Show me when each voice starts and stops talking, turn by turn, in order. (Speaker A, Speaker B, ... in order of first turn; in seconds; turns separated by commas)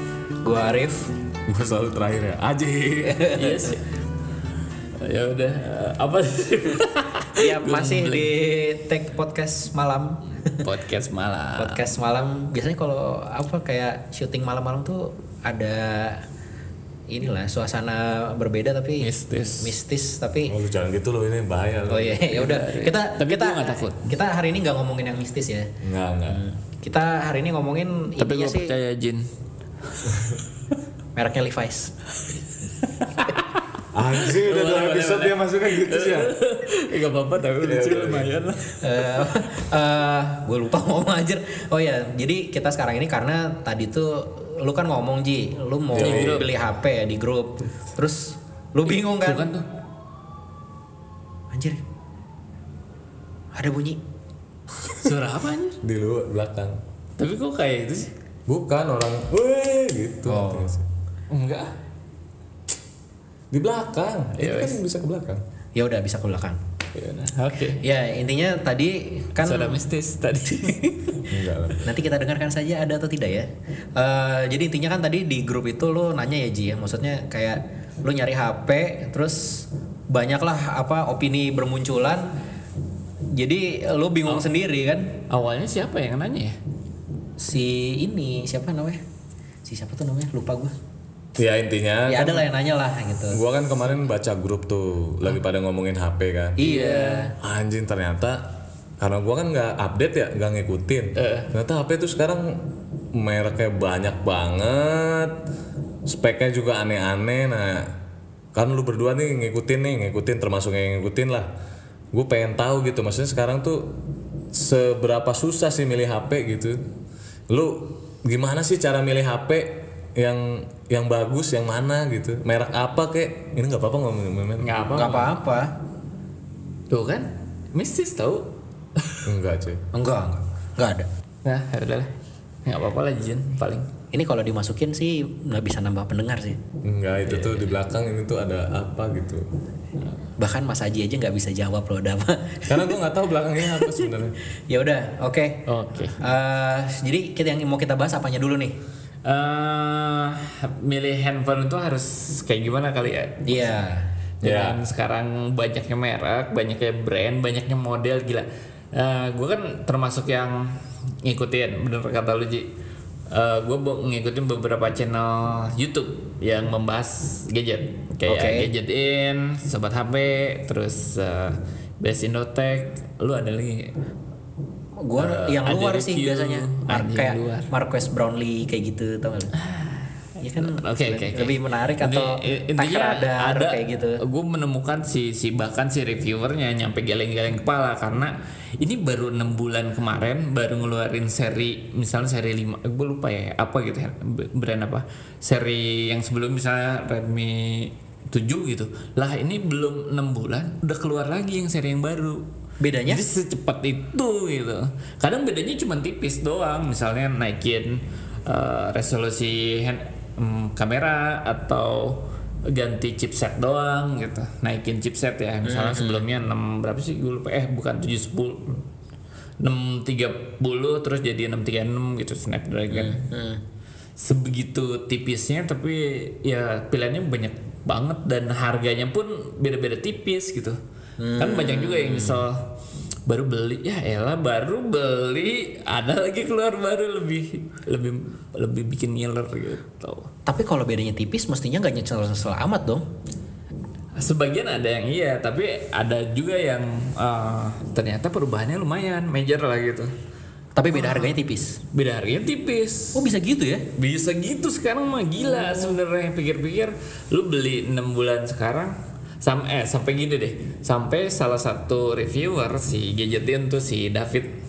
Speaker A: 0.4-1.1, Speaker B: 1.5-3.3, Speaker A: 3.0-3.7, Speaker C: 3.3-3.8, Speaker C: 5.0-8.3, Speaker A: 7.3-10.6, Speaker C: 10.6-11.8, Speaker A: 11.6-16.2, Speaker A: 17.1-20.5, Speaker C: 19.0-19.8, Speaker B: 20.5-22.3, Speaker A: 21.9-25.7, Speaker C: 22.3-24.1, Speaker B: 25.8-26.4, Speaker A: 26.3-28.7, Speaker C: 28.2-29.3, Speaker B: 30.1-30.4, Speaker A: 31.1-31.9, Speaker C: 32.8-33.3, Speaker B: 33.9-36.4, Speaker C: 34.2-39.4, Speaker B: 37.6-38.4, Speaker A: 38.8-49.4, Speaker B: 45.9-46.5, Speaker C: 45.9-46.5, Speaker C: 48.9-49.6, Speaker A: 51.5-51.8, Speaker A: 53.5-54.0, Speaker C: 54.9-55.8, Speaker B: 55.8-56.8, Speaker C: 57.2-58.1, Speaker B: 58.5-60.9, Speaker A: 60.2-60.7, Speaker C: 61.3-61.7, Speaker B: 63.5-65.4, Speaker C: 64.4-64.8, Speaker A: 65.7-66.6, Speaker C: 66.9-67.8, Speaker A: 67.8-69.8, Speaker C: 69.4-71.3, Speaker B: 71.3-71.9, Speaker A: 71.8-82.3, Speaker A: 83.3-85.1, Speaker C: 85.3-86.6, Speaker A: 87.4-89.0, Speaker A: 89.6-90.8, Speaker B: 91.3-92.5, Speaker A: 92.1-93.4, Speaker B: 93.3-96.6, Speaker A: 96.6-97.3, Speaker C: 96.6-97.3, Speaker B: 97.4-105.4, Speaker C: 101.2-101.5, Speaker B: 106.0-107.9, Speaker B: 108.5-111.5, Speaker B: 112.1-114.0, Speaker B: 114.5-116.8, Speaker B: 117.5-125.2, Speaker C: 124.6-125.3, Speaker A: 124.9-125.7, Speaker C: 126.9-129.3, Speaker B: 129.2-129.8, Speaker A: 129.9-131.1, Speaker C: 131.4-132.1, Speaker C: 132.6-133.9, Speaker A: 134.1-136.6, Speaker B: 136.8-139.5, Speaker C: 137.2-137.7, Speaker A: 140.4-142.9, Speaker B: 142.7-144.4, Speaker A: 144.7-145.7, Speaker C: 145.7-146.2, Speaker A: 146.2-148.8, Speaker C: 149.2-153.7, Speaker A: 153.4-154.1, Speaker C: 154.4-162.7, Speaker B: 154.4-154.8, Speaker C: 163.3-173.9, Speaker A: 168.2-168.7, Speaker A: 175.0-179.5, Speaker C: 175.2-177.7, Speaker C: 179.6-202.4, Speaker A: 180.4-184.2, Speaker A: 202.8-203.2, Speaker C: 203.1-218.8, Speaker A: 215.6-216.2, Speaker C: 219.6-223.2, Speaker A: 222.9-223.6, Speaker C: 224.2-230.8, Speaker A: 231.2-232.4, Speaker C: 231.4-232.7, Speaker C: 233.2-240.3, Speaker A: 240.4-243.1, Speaker C: 244.2-250.1, Speaker A: 250.8-251.8, Speaker C: 250.9-251.3, Speaker C: 251.9-253.2, Speaker A: 253.1-253.8, Speaker C: 253.9-264.5